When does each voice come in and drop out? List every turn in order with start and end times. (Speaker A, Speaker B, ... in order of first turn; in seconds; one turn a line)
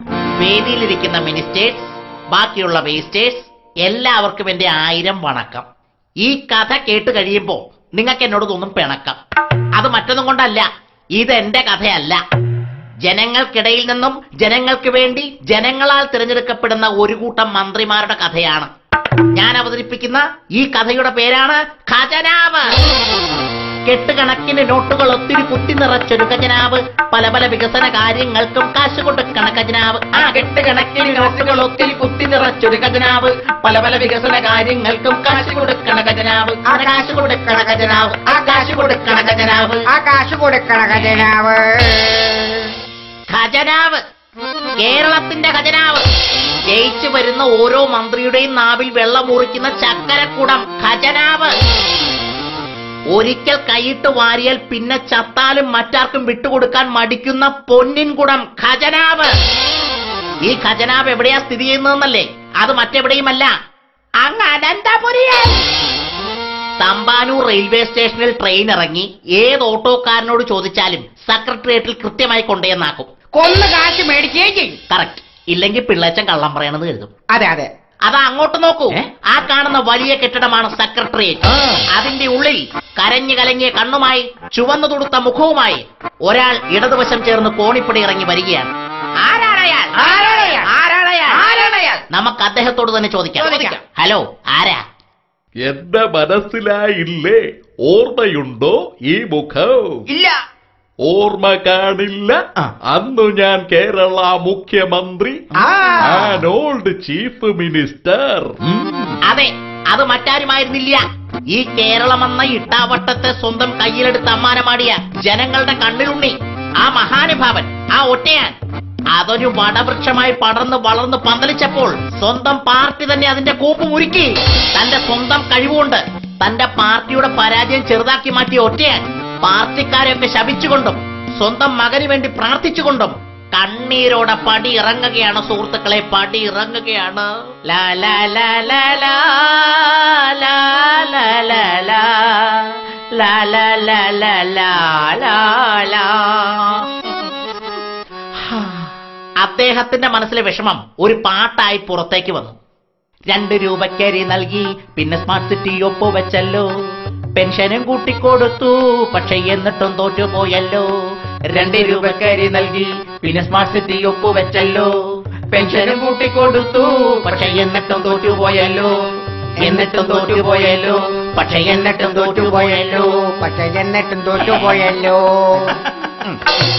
Speaker A: 0.4-5.7
Speaker A: 6.2-9.2
Speaker A: 9.8-10.7
Speaker A: 11.2-12.2
Speaker A: 13.1-18.7
Speaker A: 19.4-22.8
Speaker A: 23.9-39.9
Speaker B: 36.6-42.7
Speaker A: 40.9-41.3
Speaker A: 43.3-44.0
Speaker A: 44.8-46.1
Speaker A: 46.7-51.5
Speaker A: 53.1-59.3
Speaker A: 60.5-63.5
Speaker A: 64.2-65.6
Speaker A: 66.8-73.1
Speaker B: 73.3-74.8
Speaker A: 74.9-77.1
Speaker B: 77.3-77.7
Speaker A: 78.1-88.7
Speaker A: 89.2-91.4
Speaker B: 90.0-90.7
Speaker B: 91.3-92.0
Speaker A: 92.1-94.8
Speaker B: 93.4-93.8
Speaker C: 95.6-100.0
Speaker C: 101.1-102.4
Speaker C: 102.9-105.4
Speaker B: 105.6-106.3
Speaker C: 106.0-108.6
Speaker A: 109.3-118.5
Speaker A: 119.1-146.9
Speaker A: 148.5-148.8
Speaker A: 149.4-152.6
Speaker A: 153.3-156.7
Speaker A: 157.4-160.9
Speaker A: 161.5-164.9
Speaker A: 165.5-168.9
Speaker A: 169.6-173.1
Speaker B: 171.6-175.8
Speaker A: 174.4-174.7
Speaker A: 176.1-176.4